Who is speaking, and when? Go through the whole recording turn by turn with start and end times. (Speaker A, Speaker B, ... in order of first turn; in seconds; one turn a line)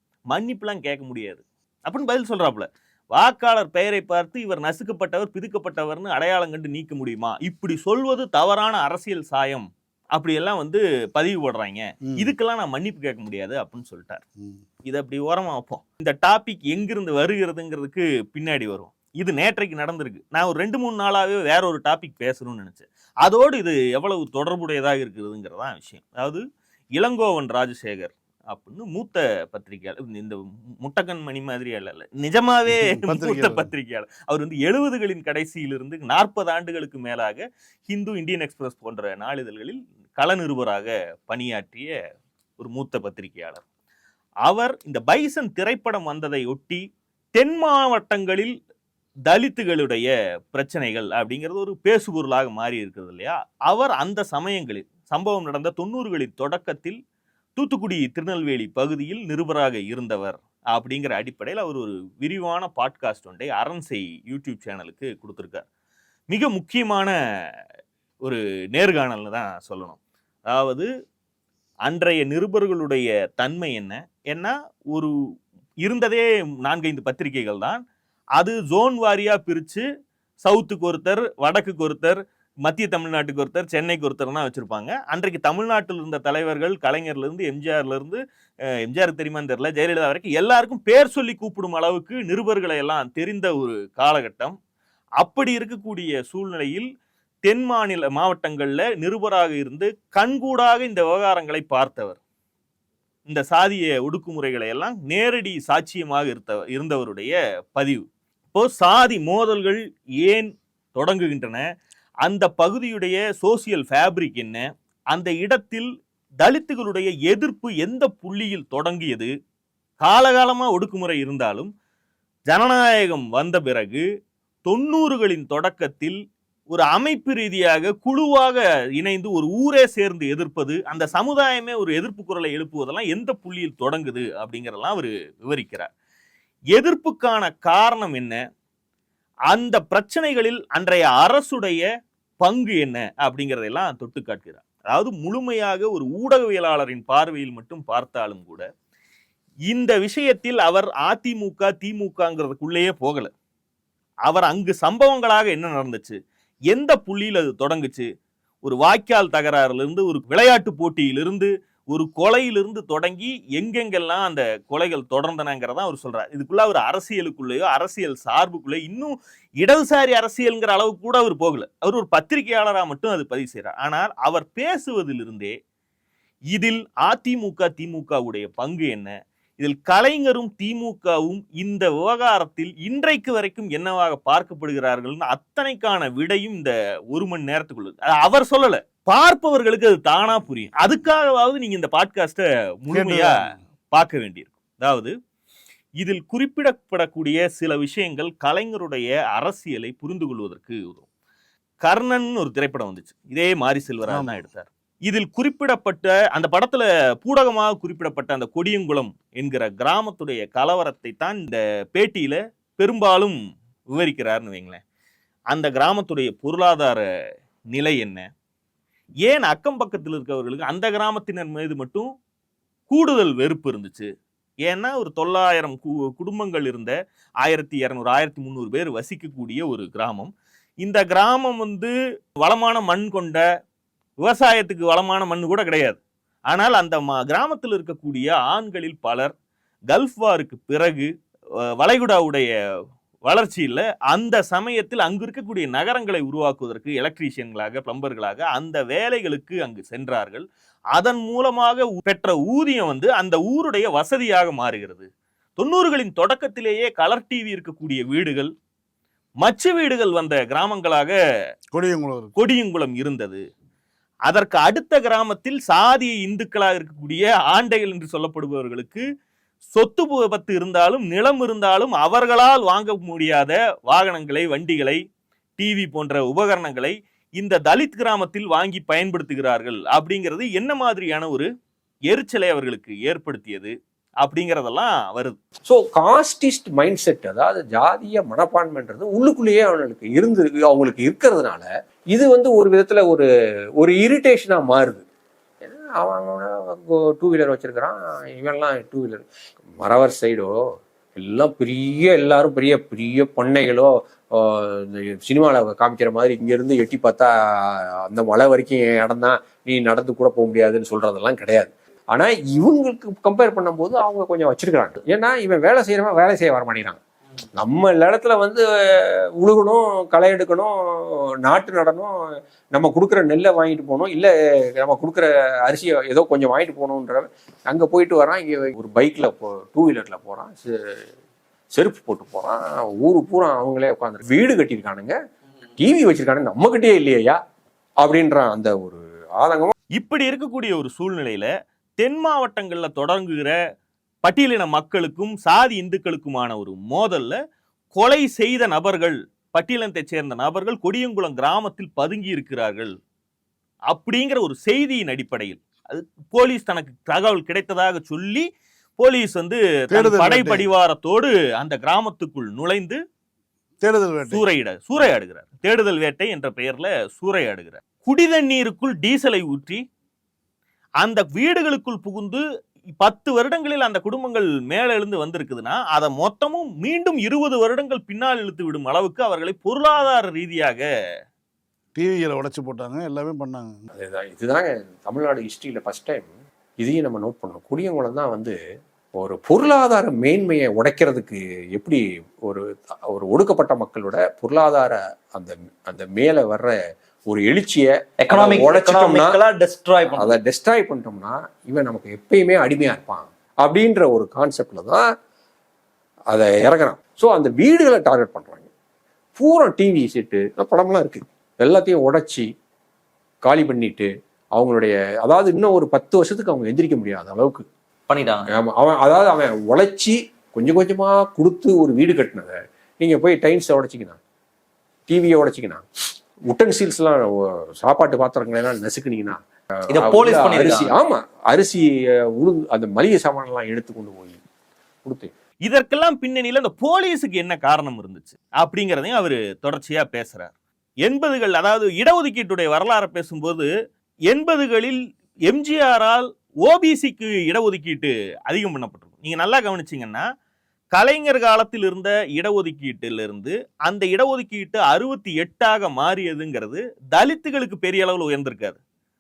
Speaker A: 0.3-14.2
Speaker A: 14.8-26.4
Speaker A: 27.0-42.0
Speaker B: 32.7-33.7
Speaker A: 42.6-43.6
Speaker A: 44.5-46.8
Speaker A: 47.4-48.5
Speaker A: 49.3-57.0
Speaker A: 57.6-65.7
Speaker A: 66.3-67.1
Speaker A: 68.2-70.9
Speaker A: 71.9-75.1
Speaker A: 75.8-77.8
Speaker A: 78.4-79.8
Speaker A: 80.4-88.2
Speaker A: 88.8-94.6
Speaker A: 95.2-96.9
Speaker A: 97.5-102.2
Speaker A: 103.3-111.6
Speaker A: 112.3-115.9
Speaker A: 116.4-119.3
Speaker A: 120.0-121.7
Speaker A: 122.5-124.0
Speaker A: 124.7-126.2
Speaker A: 126.7-135.9
Speaker A: 136.7-138.4
Speaker A: 139.5-141.9
Speaker A: 142.4-148.7
Speaker A: 149.7-153.3
Speaker A: 154.3-156.2
Speaker A: 156.7-158.1
Speaker A: 158.7-175.6
Speaker A: 176.5-193.3
Speaker B: 192.9-193.5
Speaker A: 193.9-195.1
Speaker A: 196.0-201.1
Speaker A: 201.8-213.4
Speaker B: 204.1-204.4
Speaker A: 213.9-214.8
Speaker A: 215.5-217.0
Speaker A: 217.7-218.3
Speaker A: 219.3-222.1
Speaker A: 222.9-224.1
Speaker A: 224.7-233.4
Speaker A: 234.2-239.3
Speaker A: 239.9-241.1
Speaker A: 241.8-242.5
Speaker A: 243.3-258.5
Speaker A: 259.4-261.2
Speaker B: 261.7-262.3
Speaker A: 262.4-263.4
Speaker A: 264.3-269.0
Speaker A: 269.7-275.0
Speaker A: 275.6-281.5
Speaker A: 282.1-285.4
Speaker C: 285.7-293.3
Speaker C: 293.8-295.1
Speaker C: 295.6-299.2
Speaker C: 299.8-300.5
Speaker C: 301.2-317.0
Speaker C: 317.6-322.2
Speaker C: 322.7-331.0
Speaker C: 331.7-335.2
Speaker C: 335.8-337.4
Speaker C: 338.0-339.7
Speaker A: 340.0-343.6
Speaker A: 344.2-347.4
Speaker A: 347.9-352.9
Speaker A: 353.9-358.5
Speaker A: 359.0-363.0
Speaker B: 359.9-360.7
Speaker B: 363.8-364.4
Speaker A: 364.3-369.8
Speaker A: 371.0-372.4
Speaker A: 373.0-380.9
Speaker B: 382.0-383.9
Speaker C: 383.9-388.6
Speaker C: 389.2-399.4
Speaker D: 398.2-400.3
Speaker C: 400.1-405.0
Speaker C: 406.3-408.7
Speaker C: 409.4-412.5
Speaker C: 413.5-417.7
Speaker D: 418.1-418.5
Speaker C: 418.5-424.2
Speaker C: 425.1-425.9
Speaker C: 426.5-434.4
Speaker D: 429.9-430.9
Speaker C: 435.1-435.3
Speaker A: 435.7-440.5
Speaker A: 441.1-443.7
Speaker A: 444.3-450.2
Speaker A: 450.9-458.8